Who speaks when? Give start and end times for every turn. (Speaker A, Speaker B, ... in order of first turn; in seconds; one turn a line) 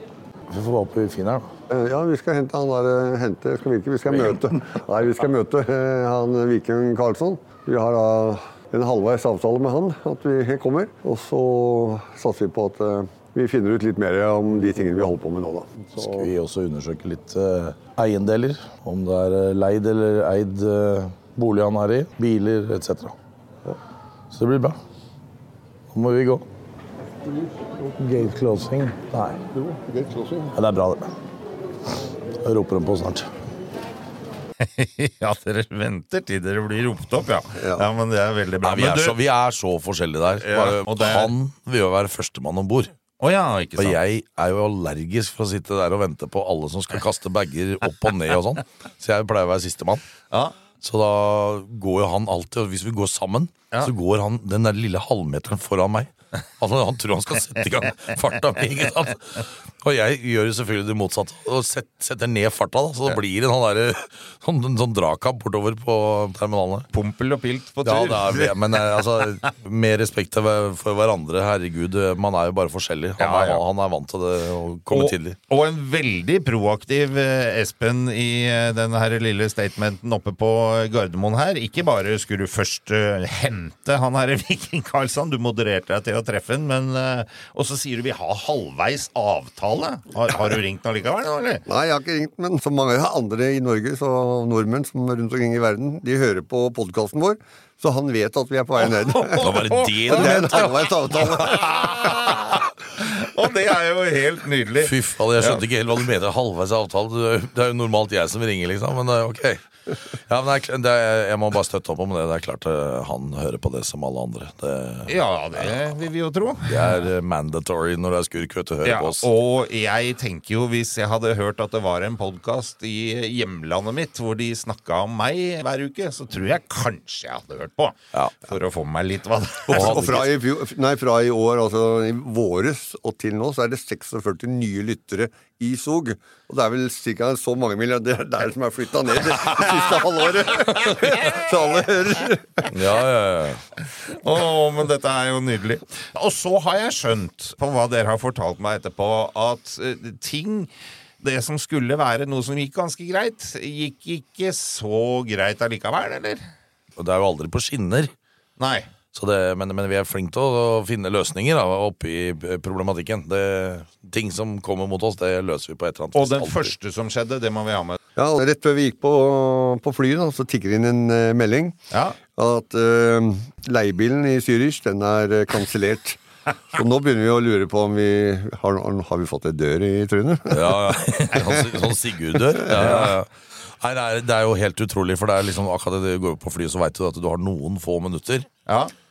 Speaker A: 0.5-1.5
Speaker B: 1.7-16.3
Speaker A: 4.1-4.6
Speaker A: 16.0-23.1
Speaker A: 24.3-24.8
Speaker A: 25.9-26.4
Speaker A: 27.9-29.4
Speaker B: 29.5-30.6
Speaker A: 30.5-31.1
Speaker A: 32.4-33.3
Speaker C: 34.6-39.2
Speaker B: 37.5-37.9
Speaker A: 38.6-42.9
Speaker C: 40.4-41.3
Speaker C: 43.2-44.0
Speaker A: 43.8-50.0
Speaker A: 50.8-66.9
Speaker C: 66.9-68.8
Speaker A: 67.8-75.4
Speaker C: 73.2-73.6
Speaker C: 74.9-91.6
Speaker B: 91.7-102.3
Speaker C: 98.9-100.5
Speaker A: 99.4-101.3
Speaker C: 101.2-105.6
Speaker A: 104.8-115.8
Speaker C: 115.1-117.0
Speaker A: 116.7-119.3
Speaker C: 118.8-130.2
Speaker A: 129.7-130.3
Speaker B: 129.7-142.7
Speaker A: 142.7-143.6
Speaker C: 144.0-156.5
Speaker A: 157.0-158.1
Speaker C: 158.6-158.9
Speaker A: 159.1-166.7
Speaker C: 166.2-168.0
Speaker B: 168.2-171.8
Speaker C: 171.9-172.2
Speaker B: 172.3-180.9
Speaker A: 180.5-188.5
Speaker C: 182.8-183.1
Speaker C: 188.7-188.9